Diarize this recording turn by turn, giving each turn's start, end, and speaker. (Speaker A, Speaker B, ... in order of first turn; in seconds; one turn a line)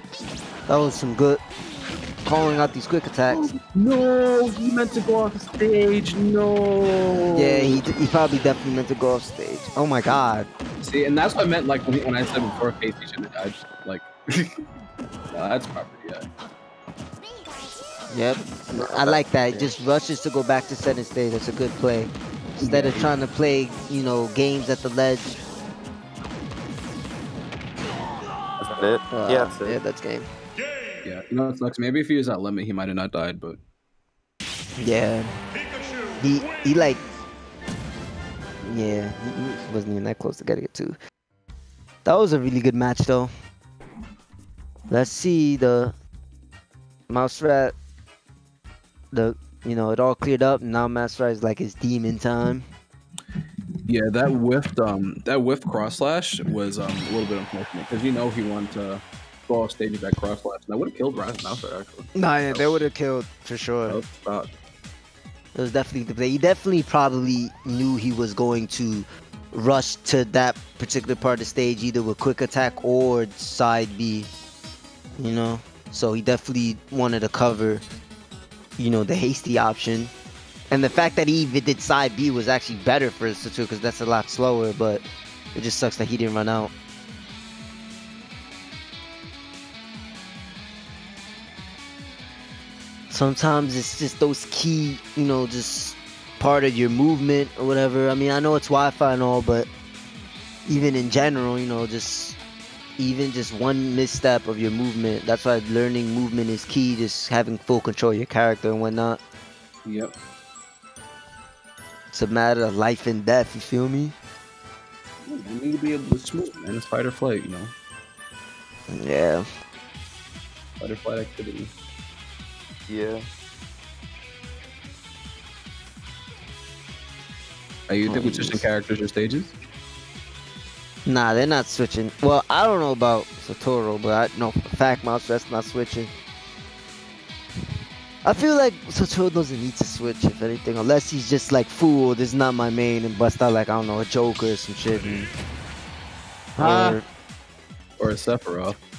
Speaker A: 0.7-1.4
Speaker A: 2.2-3.5
Speaker B: 3.3-7.8
Speaker A: 7.3-10.5
Speaker B: 10.8-14.6
Speaker B: 15.3-16.2
Speaker A: 18.1-25.4
Speaker C: 18.7-19.7
Speaker B: 22.6-23.1
Speaker B: 28.6-28.9
Speaker C: 28.7-29.8
Speaker A: 29.1-30.3
Speaker B: 31.0-33.6
Speaker A: 34.8-35.3
Speaker A: 36.2-37.0
Speaker A: 38.6-41.0
Speaker A: 42.0-43.3
Speaker A: 44.9-45.9
Speaker A: 47.1-47.7
Speaker A: 49.1-52.6
Speaker B: 53.9-62.8
Speaker A: 62.1-64.0
Speaker B: 63.9-64.5
Speaker A: 65.5-74.3
Speaker A: 75.2-77.8
Speaker A: 78.8-80.1
Speaker A: 80.7-86.7
Speaker A: 93.1-99.7
Speaker A: 100.7-102.4
Speaker A: 103.0-109.2
Speaker B: 109.8-110.1
Speaker A: 112.1-114.1
Speaker B: 115.2-117.7
Speaker A: 118.9-119.4
Speaker B: 120.8-121.7
Speaker C: 122.9-123.2
Speaker B: 127.9-129.5
Speaker A: 128.1-128.6
Speaker A: 131.1-136.1
Speaker A: 138.2-145.2
Speaker A: 146.6-147.0
Speaker B: 146.6-147.0
Speaker B: 148.0-148.8